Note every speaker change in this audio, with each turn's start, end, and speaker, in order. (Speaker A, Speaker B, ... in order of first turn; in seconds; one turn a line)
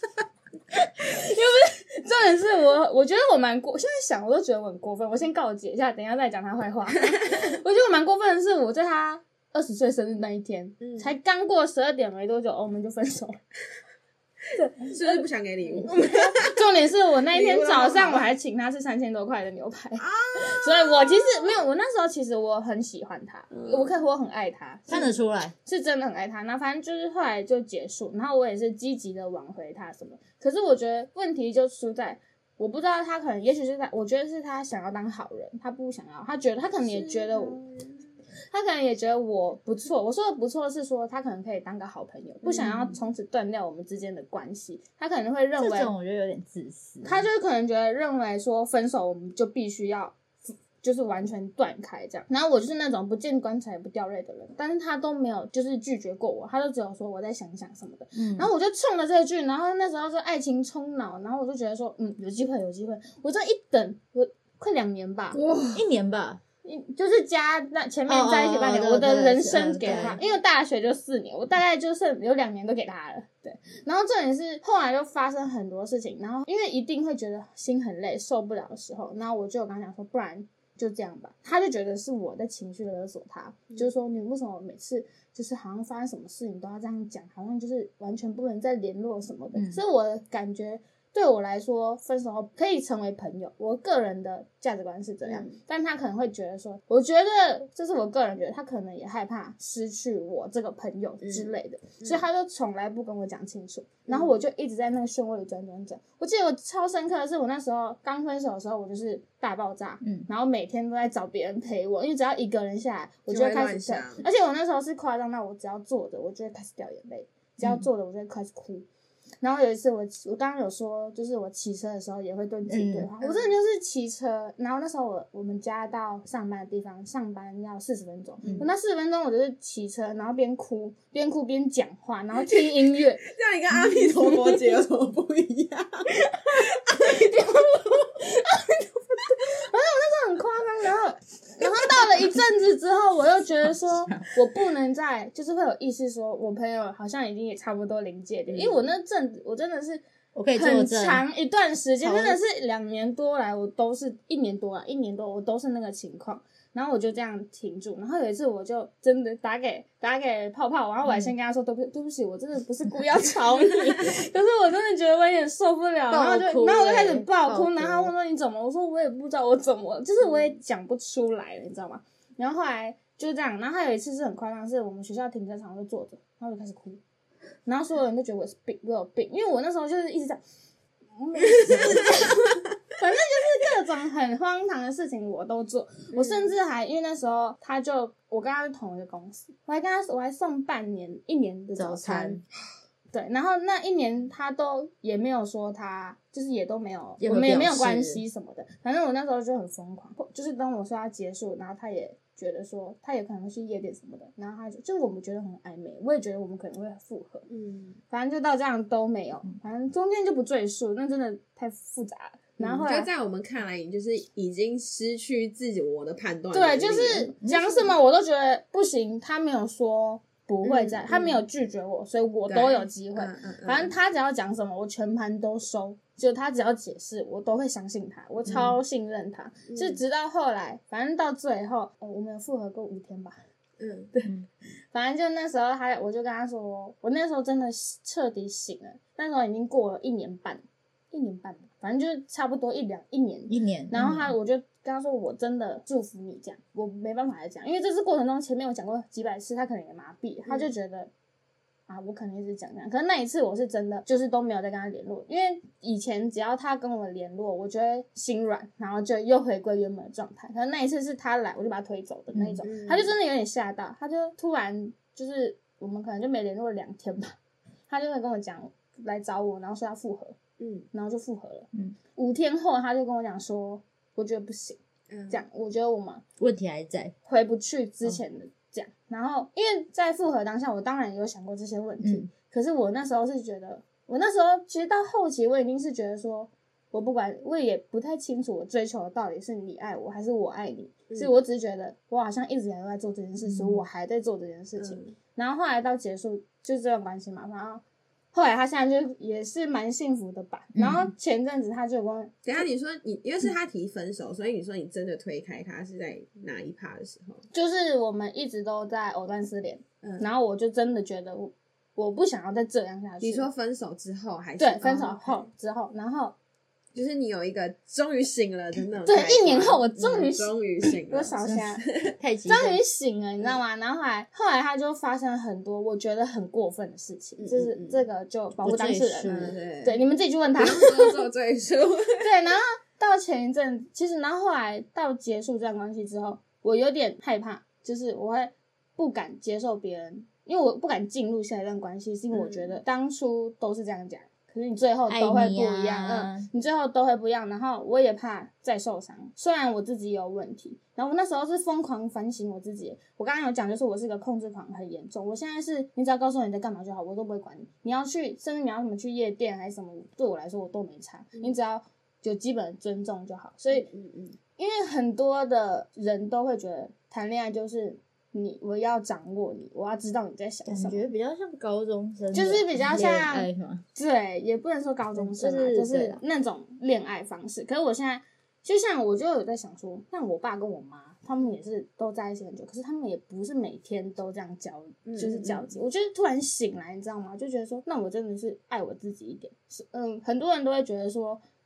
Speaker A: 0.7-13.4
Speaker B: 7.1-7.4
Speaker B: 10.8-11.1
Speaker A: 14.5-25.1
Speaker B: 14.9-16.6
Speaker B: 17.3-18.3
Speaker B: 20.0-21.6
Speaker B: 23.5-23.9
Speaker C: 24.9-25.5
Speaker A: 25.6-37.6
Speaker B: 36.9-38.0
Speaker A: 38.5-45.9
Speaker B: 42.5-42.8
Speaker C: 45.6-47.2
Speaker A: 47.0-65.4
Speaker C: 58.1-58.5
Speaker B: 65.3-65.8
Speaker C: 65.7-66.4
Speaker A: 66.6-118.9
Speaker C: 68.1-70.2
Speaker B: 69.9-70.2
Speaker C: 89.5-89.8
Speaker B: 95.2-95.5
Speaker B: 101.2-102.2
Speaker B: 104.1-104.3
Speaker C: 110.0-110.3
Speaker B: 113.3-114.2
Speaker C: 117.6-117.9
Speaker A: 119.4-133.3
Speaker C: 122.7-123.1
Speaker B: 123.2-123.5
Speaker C: 128.4-128.7
Speaker B: 133.2-138.1
Speaker A: 133.9-134.8
Speaker A: 136.3-150.0
Speaker C: 144.1-144.3
Speaker B: 148.5-148.8
Speaker C: 150.3-151.2
Speaker A: 150.5-177.0
Speaker C: 152.0-152.4
Speaker C: 161.1-161.3
Speaker C: 166.1-168.1
Speaker A: 177.7-180.4
Speaker A: 181.1-192.4
Speaker B: 181.4-182.6
Speaker B: 186.1-186.5
Speaker C: 191.8-192.4
Speaker A: 193.1-207.4
Speaker C: 197.2-198.2
Speaker B: 207.5-208.0
Speaker A: 208.1-213.1
Speaker B: 212.6-217.3
Speaker A: 216.5-233.4
Speaker C: 217.4-217.9
Speaker B: 220.6-221.4
Speaker B: 222.5-223.9
Speaker B: 228.5-228.7
Speaker B: 229.7-230.0
Speaker B: 233.8-234.1
Speaker A: 234.9-251.1
Speaker C: 243.5-244.3
Speaker A: 251.9-267.4
Speaker C: 262.3-262.6
Speaker B: 262.6-263.1
Speaker A: 267.9-270.4
Speaker B: 270.6-270.9
Speaker A: 270.9-274.8
Speaker B: 275.1-275.4
Speaker A: 275.3-276.2
Speaker C: 276.4-277.1
Speaker A: 277.2-302.6
Speaker C: 282.0-282.3
Speaker C: 293.4-293.8
Speaker B: 294.8-295.1
Speaker C: 300.8-301.1
Speaker B: 302.4-307.4
Speaker A: 307.5-313.5
Speaker B: 310.0-310.3
Speaker B: 313.2-315.5
Speaker A: 314.6-316.4
Speaker B: 316.9-322.1
Speaker A: 319.0-321.9
Speaker C: 321.4-321.7
Speaker C: 322.2-322.8
Speaker A: 322.5-331.2
Speaker B: 327.4-328.1
Speaker C: 328.6-329.5
Speaker B: 329.2-330.0
Speaker B: 330.6-332.3
Speaker A: 332.2-363.9
Speaker B: 342.3-342.8
Speaker C: 345.1-346.5
Speaker B: 363.7-364.4
Speaker A: 364.6-371.1
Speaker C: 370.6-373.8
Speaker A: 372.3-391.4
Speaker C: 375.1-376.2
Speaker B: 385.1-385.7